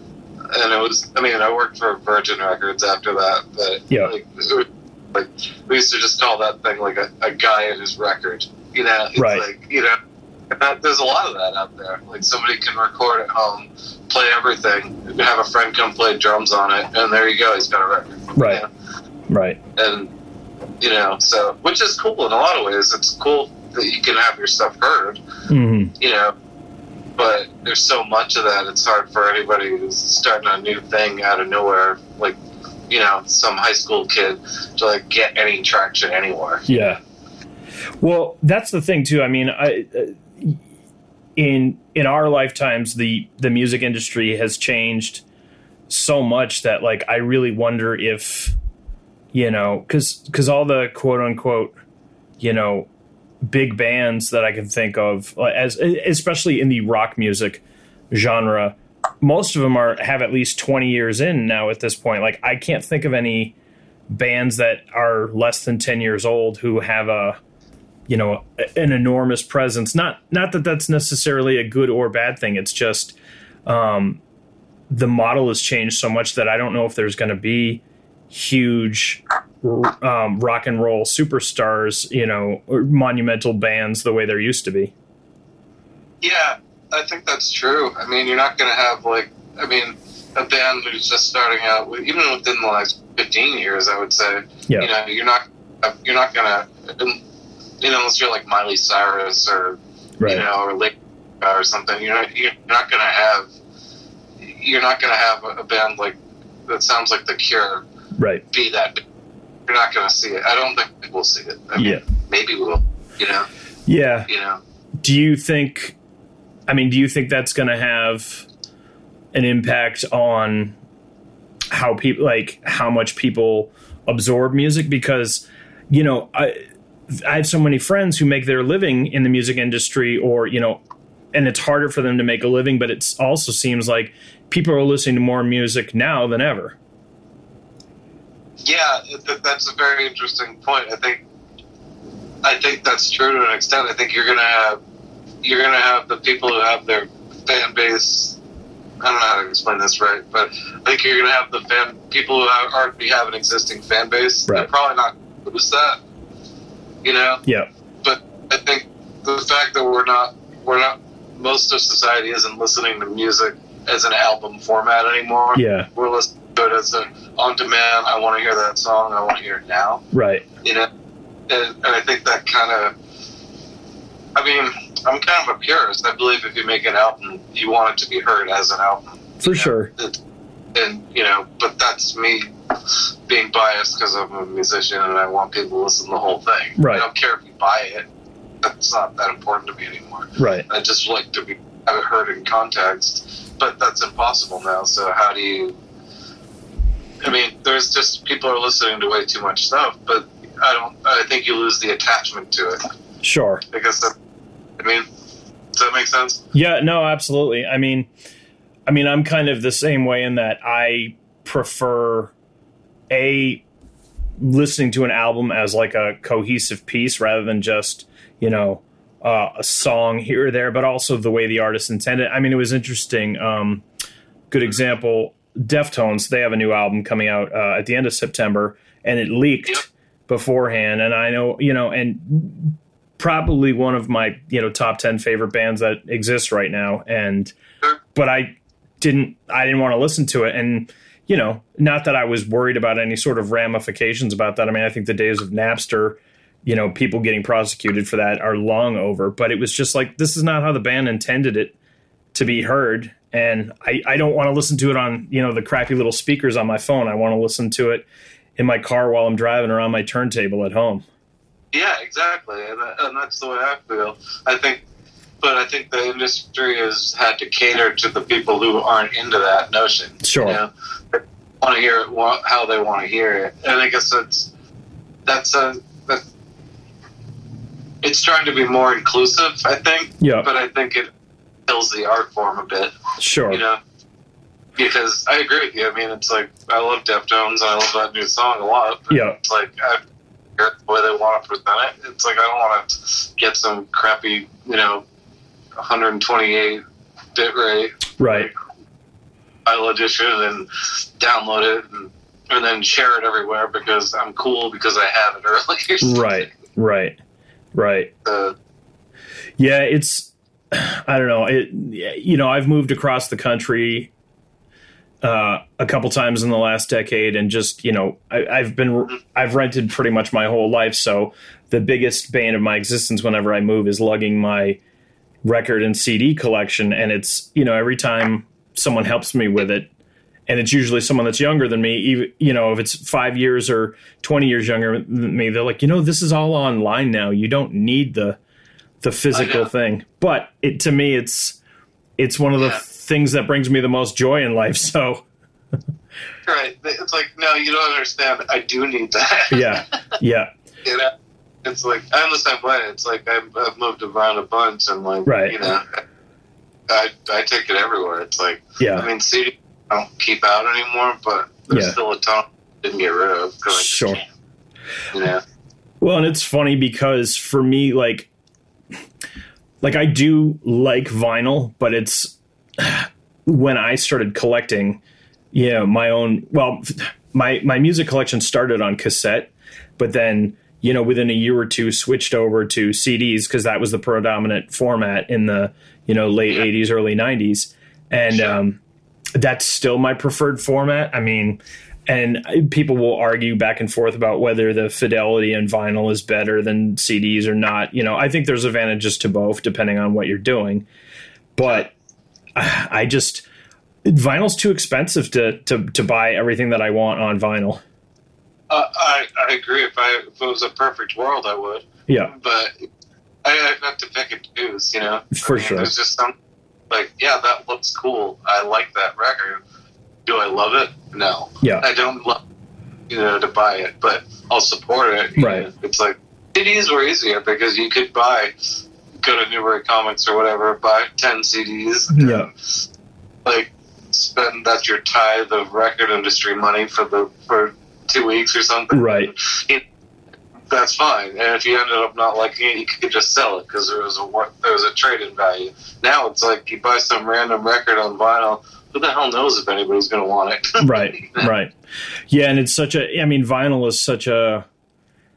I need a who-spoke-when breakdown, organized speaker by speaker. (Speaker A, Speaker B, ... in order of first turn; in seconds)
Speaker A: 0.5-10.0, 10.5-18.7, 19.8-20.1, 20.8-25.2, 26.0-26.3, 27.2-32.4, 32.9-36.7, 86.2-97.2, 97.8-103.5, 104.4-107.8, 108.5-109.0, 109.7-113.5, 114.3-114.6, 138.7-141.2, 142.4-144.8, 145.4-148.4, 149.0-156.0, 157.0-157.4, 158.0-170.0, 170.6-170.9, 171.5-172.9, 174.3-180.2, 180.7-182.5, 183.3-188.1, 188.6-195.8, 197.2-202.8, 203.7-204.1, 204.8-205.1, 205.8-206.4, 261.7-264.8, 265.4-274.5, 275.3-276.2, 278.0-281.1, 281.7-283.0, 283.5-283.8, 284.8-290.0, 290.6-295.0, 295.8-296.8, 297.4-298.6, 299.6-306.5, 308.2-308.6, 339.3-339.7, 346.5-349.8, 350.9-351.1, 351.6-356.0, 356.9-364.3, 365.1-365.4, 388.3-388.6, 408.7-412.7, 413.4-416.3, 416.9-419.6, 420.3-422.4, 423.1-428.5, 429.2-432.5, 433.4-439.8, 440.7-451.5
Speaker B: 9.2-9.4, 18.4-18.6, 19.3-19.6, 25.5-25.9, 36.7-37.0, 38.0-40.6, 41.4-45.2, 45.9-48.5, 49.3-51.7, 52.4-52.9, 53.5-63.5, 64.1-67.4, 68.1-74.2, 74.9-84.9, 100.2-100.5, 108.2-108.5, 111.8-112.0, 113.9-114.3, 115.0-116.0, 116.7-118.5, 119.3-120.8, 121.7-126.6, 127.1-130.8, 131.3-136.8, 165.6-165.9, 170.1-170.5, 179.4-179.9, 186.8-187.1, 190.4-190.7, 203.2-203.6, 206.5-208.1, 208.9-212.3, 213.1-213.6, 214.4-223.8, 224.5-237.6, 238.1-251.8, 252.3-258.1, 258.6-261.1, 270.2-270.6, 280.2-280.5, 283.2-283.6, 289.1-289.4, 298.2-298.5, 306.0-307.2, 307.7-308.1, 309.6-314.1, 315.2-324.8, 325.4-329.9, 330.5-338.4, 339.0-341.6, 342.2-345.3, 349.5-350.5, 355.3-355.6, 358.8-359.1, 361.7-362.0, 363.7-364.2, 366.0-368.3, 369.8-375.0, 375.5-388.8, 389.4-400.9, 401.6-401.9, 402.6-403.4, 404.1-407.8, 412.1-412.3, 415.4-415.9, 425.4-425.7, 432.1-432.5, 438.9-439.3, 450.8-451.7, 452.3-454.7